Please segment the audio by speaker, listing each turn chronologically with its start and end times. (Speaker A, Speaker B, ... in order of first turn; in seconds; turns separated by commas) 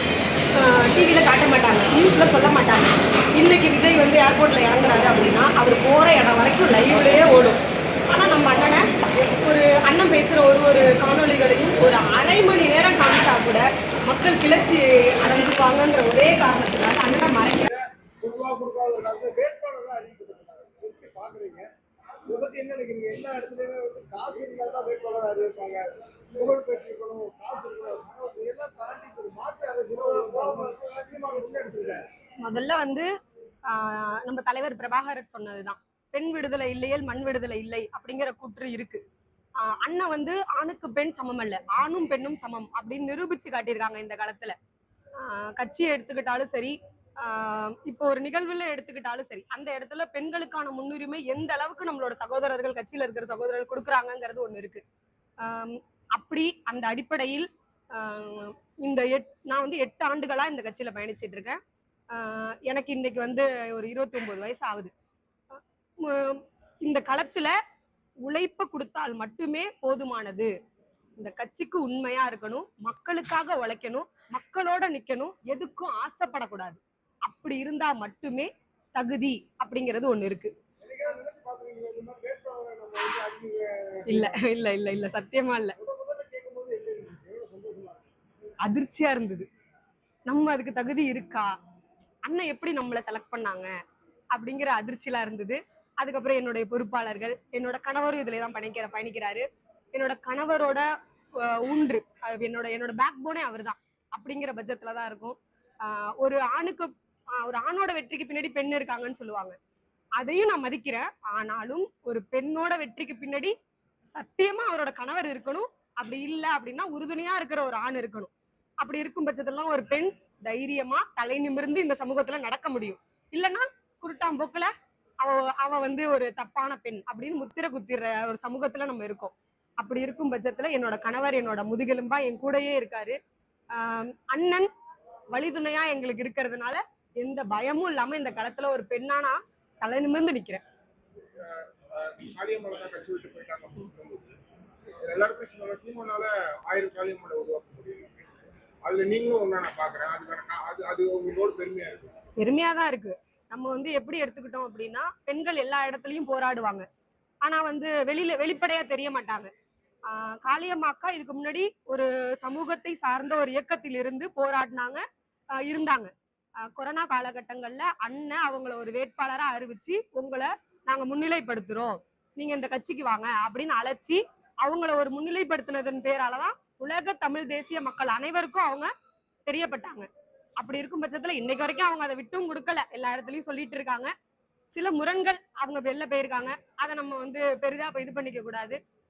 Speaker A: 0.6-17.7, Speaker B: 17.6-21.7, Speaker B: 22.3-32.0, Speaker A: 32.4-33.1, Speaker A: 33.7-39.0, Speaker A: 39.6-44.5, Speaker A: 45.2-54.8, Speaker A: 55.4-61.6, Speaker A: 62.1-64.9, Speaker A: 65.5-67.5, Speaker A: 68.2-70.5, Speaker A: 71.2-80.5, Speaker B: 80.8-84.4, Speaker A: 84.1-85.8, Speaker B: 85.8-88.2, Speaker A: 88.6-89.5, Speaker A: 90.3-91.5, Speaker A: 92.2-93.7, Speaker A: 94.3-109.6, Speaker A: 110.2-113.5, Speaker A: 114.1-133.2, Speaker A: 133.7-134.7, Speaker A: 135.3-140.6, Speaker C: 141.4-148.2, Speaker C: 148.8-152.1, Speaker A: 152.4-156.9, Speaker A: 157.4-159.5, Speaker A: 160.1-178.9, Speaker A: 179.5-184.1, Speaker A: 184.7-188.8